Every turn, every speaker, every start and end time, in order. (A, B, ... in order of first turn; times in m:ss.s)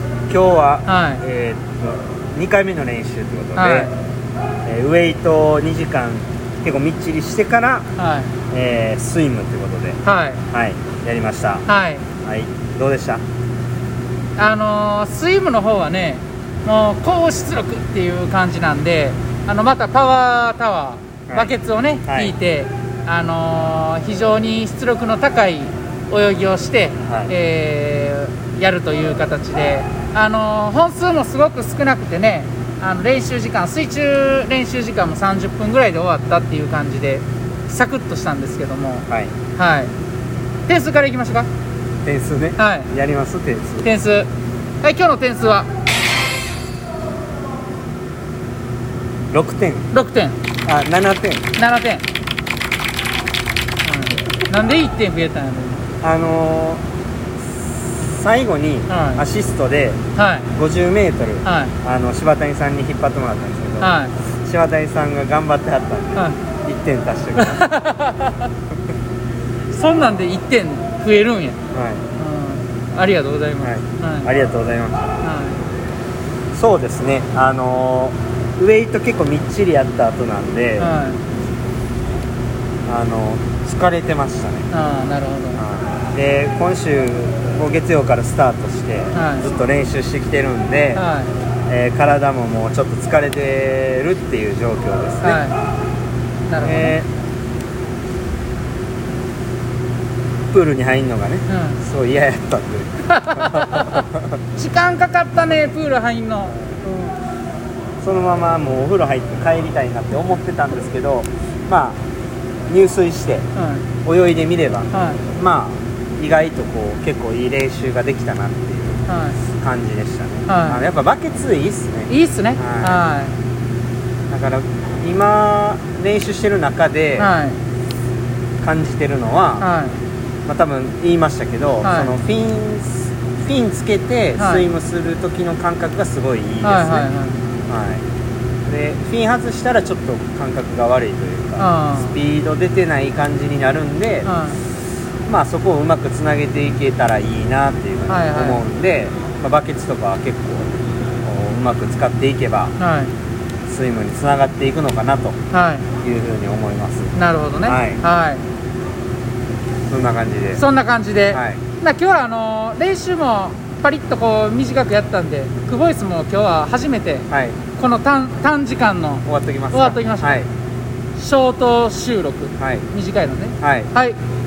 0:00.3-0:03.9 A
0:00.9-0:01.2 B
0:03.6-0:03.9 B
0:04.7-0:07.9 A
0:08.0-0:08.3 B
0:08.5-0:10.0 A
0:10.0-0:10.4 B
0:10.5-0:11.6 A
0:11.7-0:12.0 B
0:12.2-0:13.2 A
0:14.4-0:39.9 B
0:21.3-0:21.5 A
0:22.1-0:22.3 A
0:27.1-0:27.3 A
0:40.7-0:41.5 B
0:42.0-0:43.9 A
0:42.6-0:42.9 B
0:43.8-0:44.3 B
0:44.8-0:45.7 B
0:49.3-0:49.9 A
0:49.9-0:50.4 B
0:50.7-0:51.4 A
0:51.6-0:52.0 B
0:53.8-0:55.8 B
0:56.0-0:56.8 A
0:57.5-1:00.0 A
0:58.9-0:59.2 B
1:00.2-1:00.5 B
1:00.6-1:07.7 A
1:01.4-1:01.7 B
1:03.8-1:04.1 B
1:07.4-1:08.4 B
1:09.7-1:11.6 B
1:11.7-1:12.0 A
1:12.2-1:14.3 B
1:13.6-1:15.2 A
1:15.2-1:15.6 B
1:16.5-1:20.9 A
1:20.8-1:21.2 B
1:22.9-1:24.7 A
1:24.7-1:25.6 B
1:25.6-1:31.0 A
1:29.1-1:29.5 B
1:31.0-1:31.3 B
1:31.7-1:35.4 A
1:35.2-1:35.6 B
1:36.5-1:37.0 B
1:36.6-1:37.1 A
1:40.5-1:44.0 A
1:41.5-1:41.8 B
1:43.1-1:44.0 B
1:44.6-1:47.1 B
1:48.0-1:52.0 A
1:52.7-1:53.5 A
1:53.6-1:53.8 B
1:54.0-1:59.0 A
1:54.9-1:55.2 B
1:59.1-1:59.4 B
1:59.6-2:03.0 A
2:00.5-2:00.8 B
2:02.1-2:03.3 B
2:04.3-2:07.3 A
2:07.2-2:07.6 B
2:08.6-2:09.7 A
2:09.6-2:09.9 B
2:10.5-2:17.1 A
2:11.8-2:12.1 B
2:14.4-2:14.7 B
2:16.6-2:17.4 B
2:17.7-2:18.0 A
2:18.7-2:24.3 A
2:21.6-2:22.1 B
2:24.2-2:24.6 B
2:25.3-2:30.7 A
2:28.1-2:28.6 B
2:31.2-2:32.7 A
2:32.8-2:33.1 B
2:33.7-2:35.4 A
2:35.5-2:35.9 B
2:36.0-2:37.1 A
2:37.1-2:38.4 B
2:37.6-2:38.0 A
2:39.9-2:40.6 A
2:40.6-2:50.4 B
2:41.3-2:41.6 A
2:47.3-2:47.6 A
2:49.3-2:50.5 A
2:51.2-2:54.2 B
2:52.6-2:52.9 A
2:53.6-2:53.9 A